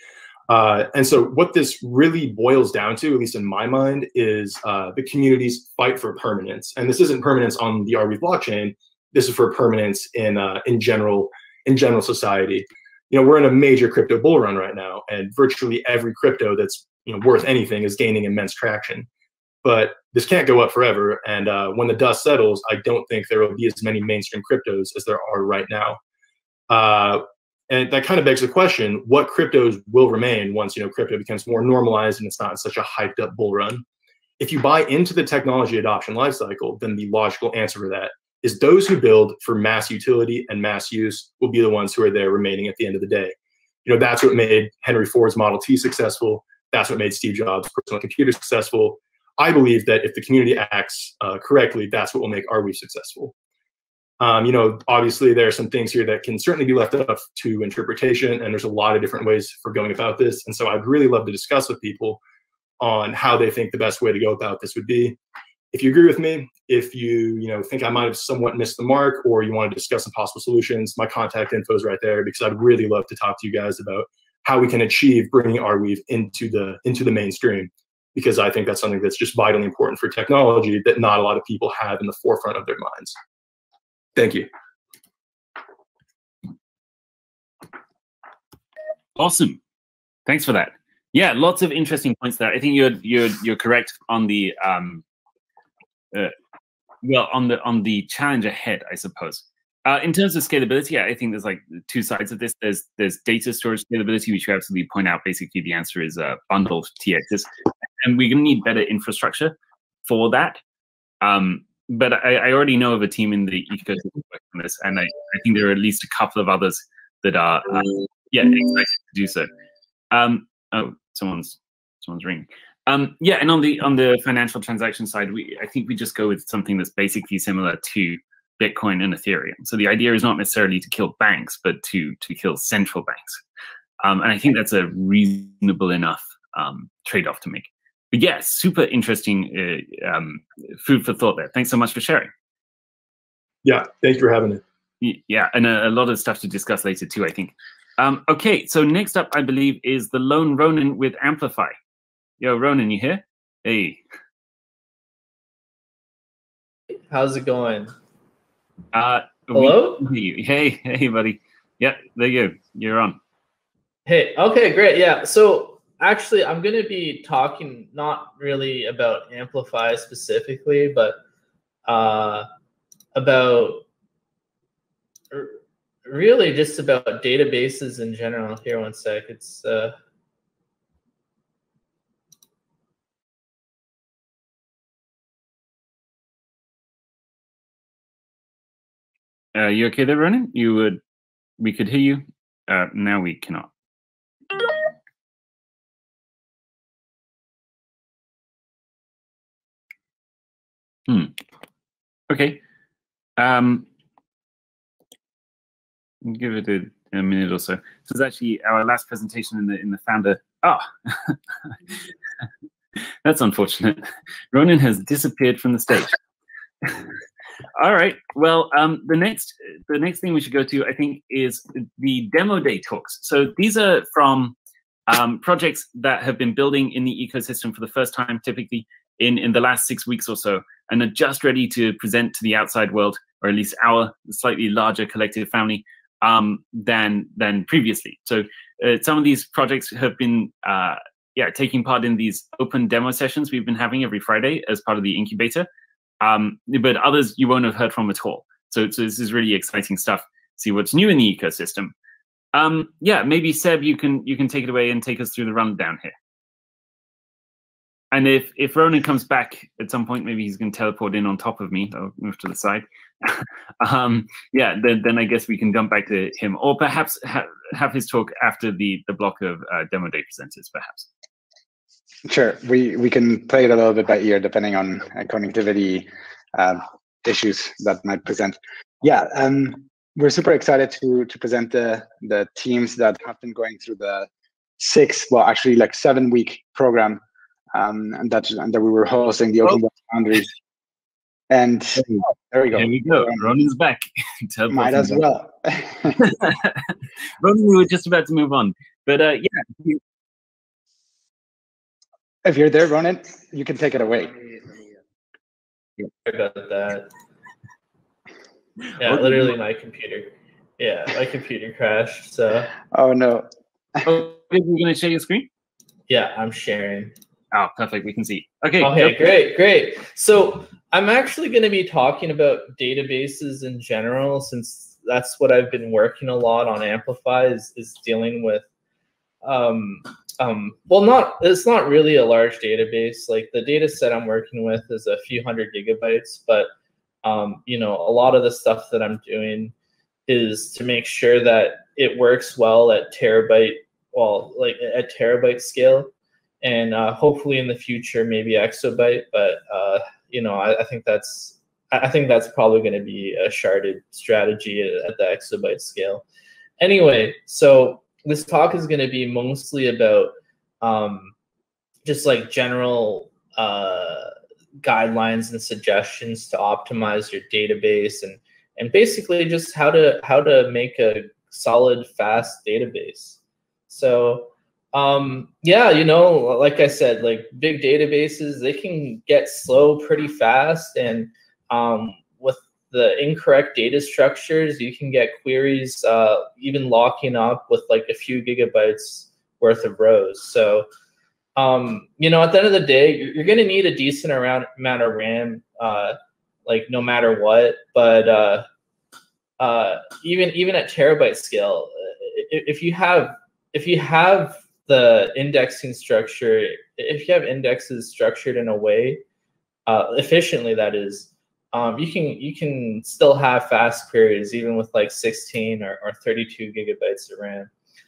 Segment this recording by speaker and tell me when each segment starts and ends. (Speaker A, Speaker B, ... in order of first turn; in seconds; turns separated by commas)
Speaker A: 0.5-19.1, Speaker A: 19.6-26.0, Speaker A: 26.7-33.8, Speaker A: 34.4-43.3, Speaker A: 43.9-53.3, Speaker A: 54.2-62.2, Speaker A: 62.8-65.2, Speaker A: 65.7-83.2, Speaker A: 84.2-84.5, Speaker B: 89.2-89.6, Speaker B: 90.3-95.0, Speaker B: 97.0-107.5, Speaker B: 108.0-109.5, Speaker B: 110.1-110.6, Speaker B: 111.2-119.5, Speaker B: 120.1-133.4, Speaker B: 134.0-142.3, Speaker A: 143.6-144.6, Speaker B: 145.0-151.8, Speaker B: 152.4-154.0, Speaker C: 157.1-157.9, Speaker B: 158.9-163.2, Speaker C: 159.5-160.0, Speaker C: 164.1-171.2, Speaker C: 171.9-172.5, Speaker C: 173.1-173.8, Speaker C: 175.3-179.9, Speaker B: 189.6-191.0, Speaker B: 191.6-193.7, Speaker B: 201.1-201.3, Speaker B: 202.3-202.6, Speaker B: 203.4-203.9, Speaker B: 206.2-211.4, Speaker B: 213.2-216.2, Speaker B: 217.8-224.6, Speaker B: 225.1-245.7, Speaker B: 246.2-251.9, Speaker B: 252.5-256.1, Speaker B: 258.1-271.1, Speaker D: 272.3-284.3, Speaker D: 284.8-287.2, Speaker D: 287.7-290.5, Speaker D: 291.5-293.5, Speaker B: 292.7-295.3, Speaker D: 294.7-296.1, Speaker B: 296.2-299.7, Speaker D: 302.4-304.6, Speaker C: 306.2-307.1, Speaker C: 309.0-312.7, Speaker B: 309.1-309.5, Speaker D: 312.9-313.5, Speaker B: 314.1-315.5, Speaker C: 316.1-317.1, Speaker B: 317.5-319.3, Speaker C: 318.8-328.6, Speaker C: 329.4-336.7, Speaker C: 337.2-339.7, Speaker C: 340.3-346.1, Speaker C: 346.6-356.2, Speaker C: 356.8-361.3, Speaker C: 362.1-373.4, Speaker C: 373.9-390.9, Speaker C: 391.6-398.7, Speaker C: 399.6-409.2, Speaker C: 409.9-417.7